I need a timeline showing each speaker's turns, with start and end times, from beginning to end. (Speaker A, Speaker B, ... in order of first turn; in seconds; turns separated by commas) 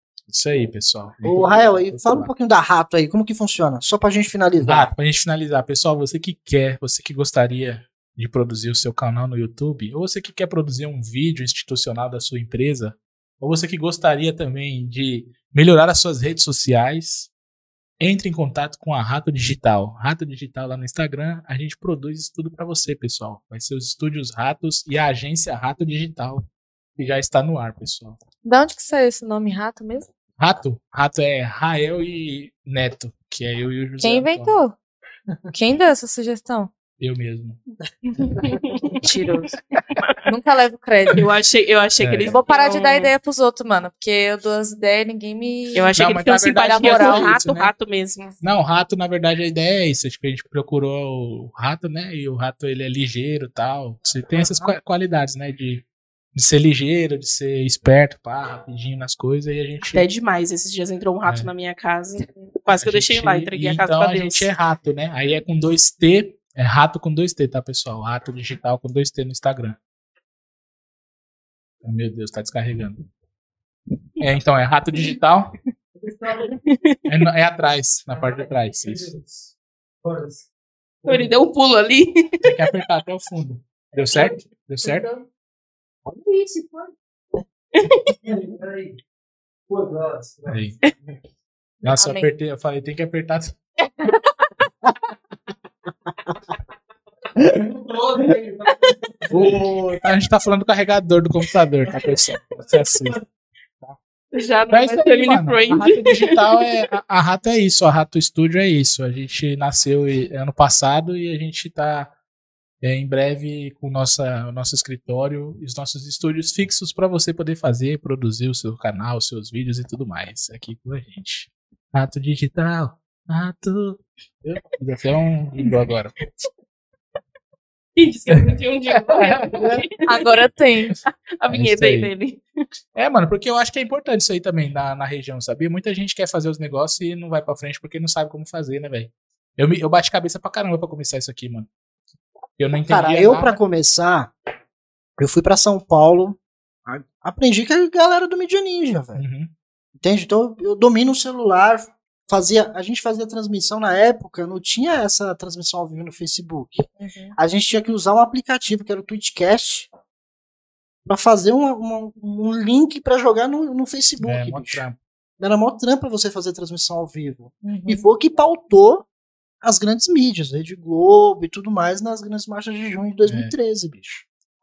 Speaker A: 0.3-2.3, Speaker B: 1.2-4.9, Speaker A: 4.6-17.3, Speaker A: 18.0-26.4, Speaker A: 27.0-28.2, Speaker C: 28.4-30.1, Speaker A: 30.4-34.6, Speaker C: 34.0-34.7, Speaker C: 35.5-36.7, Speaker A: 37.0-37.6, Speaker D: 38.3-39.1, Speaker C: 38.9-39.5, Speaker D: 40.0-40.2, Speaker C: 40.2-41.2, Speaker D: 41.1-43.1, Speaker A: 42.0-42.4, Speaker C: 42.3-46.0, Speaker D: 45.7-48.4, Speaker A: 46.0-47.7, Speaker C: 46.5-47.3, Speaker A: 48.4-55.8, Speaker B: 54.3-54.8, Speaker A: 56.3-60.0, Speaker D: 59.8-64.5, Speaker A: 61.2-61.5, Speaker A: 62.8-69.8, Speaker A: 71.8-73.0, Speaker A: 74.2-75.5, Speaker E: 75.9-76.6, Speaker D: 76.7-77.0, Speaker A: 77.1-79.1, Speaker E: 78.1-80.5, Speaker E: 81.0-81.3, Speaker D: 81.0-82.7, Speaker A: 82.4-85.1, Speaker C: 84.8-85.2, Speaker E: 86.1-86.9, Speaker D: 87.7-88.1, Speaker E: 88.2-89.0, Speaker E: 89.7-90.7, Speaker A: 90.5-90.8, Speaker A: 91.8-93.5, Speaker C: 91.8-92.3, Speaker E: 97.4-99.7, Speaker A: 99.3-103.2, Speaker D: 104.3-106.6, Speaker A: 104.7-112.1, Speaker A: 112.8-126.2, Speaker D: 128.0-130.4, Speaker A: 128.3-129.7, Speaker C: 130.1-131.0, Speaker D: 131.1-132.4, Speaker A: 131.5-132.1, Speaker A: 132.9-141.7, Speaker A: 142.6-143.6, Speaker B: 142.9-144.3, Speaker B: 145.2-149.2, Speaker A: 149.2-149.5, Speaker B: 150.0-156.8, Speaker C: 157.0-157.3, Speaker B: 157.4-159.9, Speaker B: 161.1-164.8, Speaker A: 164.2-165.0, Speaker B: 165.4-169.1, Speaker C: 167.6-168.1, Speaker B: 169.6-174.2, Speaker A: 173.2-173.5